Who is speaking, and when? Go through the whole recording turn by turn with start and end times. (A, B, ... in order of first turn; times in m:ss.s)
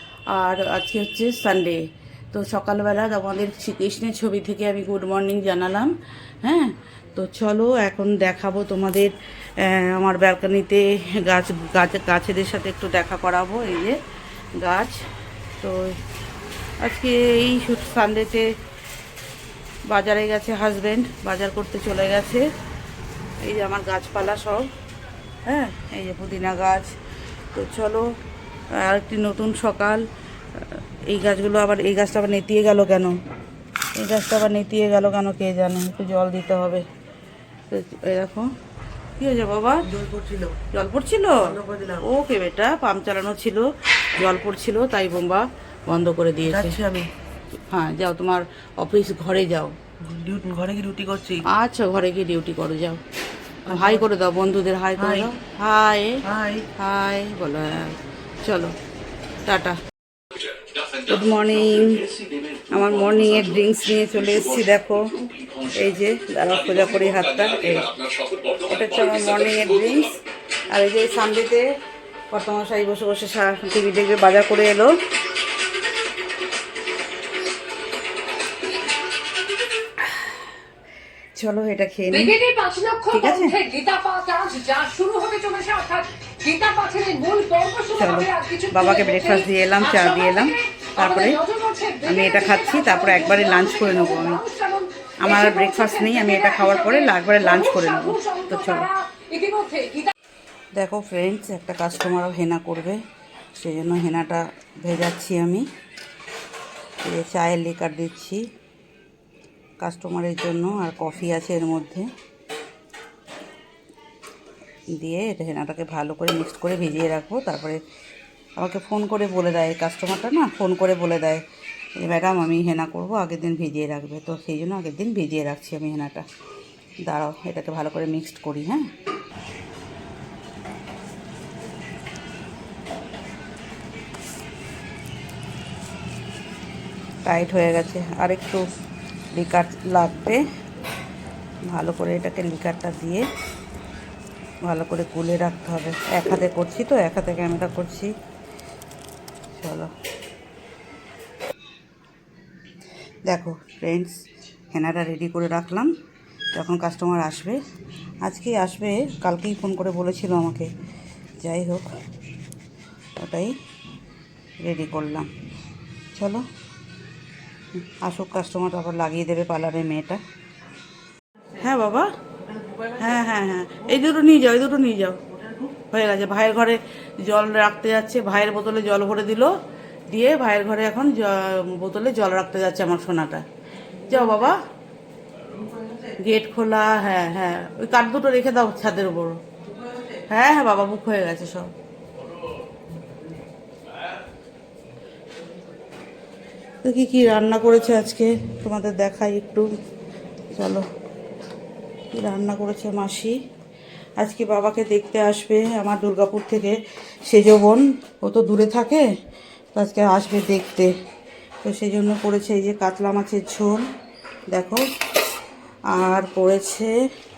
0:00.3-0:14.0 A
0:14.5-0:15.0 A
0:15.6-0:16.0 A
0:16.8-0:18.5 A
0:19.9-0:22.5 A
0:23.4-0:24.7 A
0:25.4-0:26.9 A
0:27.5-0:28.1 A
0:28.7-0:33.2 A
0:34.0-0:36.8 A
0:37.7-0:38.5 A
0:39.2-0:39.9 A
0:39.9-0:40.6 B
0:40.6-0:46.8 A
0:41.6-0:42.0 B
0:46.7-0:47.1 B
0:47.7-0:49.8 A
0:50.0-0:51.4 B
0:51.4-0:53.0 A
0:53.6-0:58.7 A
0:56.3-0:56.7 B
0:59.4-0:59.8 A
1:00.9-1:11.7 A
1:12.3-1:14.9 A
1:20.0-1:20.3 A
1:21.4-1:22.4 A
1:22.1-1:40.1 C
1:23.1-1:23.6 A
1:27.9-1:31.4 A
1:32.0-1:34.4 A
1:35.2-1:38.9 A
1:40.7-1:43.0 A
1:43.5-1:45.7 A
1:47.0-1:48.4 A
1:49.8-1:52.1 A
1:54.9-1:57.8 A
1:58.6-2:01.4 A
2:02.0-2:06.2 A
2:07.0-2:08.9 A
2:17.2-2:18.7 A
2:19.3-2:20.4 A
2:21.7-2:23.2 A
2:24.6-2:28.1 A
2:29.6-2:29.9 A
2:33.3-2:35.9 A
2:36.5-2:37.6 A
2:38.2-2:40.7 A
2:41.4-2:41.9 A
2:43.2-2:43.6 A
2:44.6-2:45.3 A
2:46.1-2:46.4 A
2:47.8-2:50.2 A
2:51.5-2:52.1 A
2:52.5-2:52.8 B
2:52.8-2:59.6 A
3:00.1-3:03.4 A
3:04.0-3:04.6 A
3:06.0-3:09.4 A
3:10.1-3:11.7 A
3:16.8-3:19.7 A
3:20.5-3:20.8 A
3:22.1-3:23.4 A
3:24.2-3:29.1 A
3:29.7-3:30.9 A
3:31.6-3:33.9 A
3:34.5-3:34.8 A
3:35.9-3:36.9 A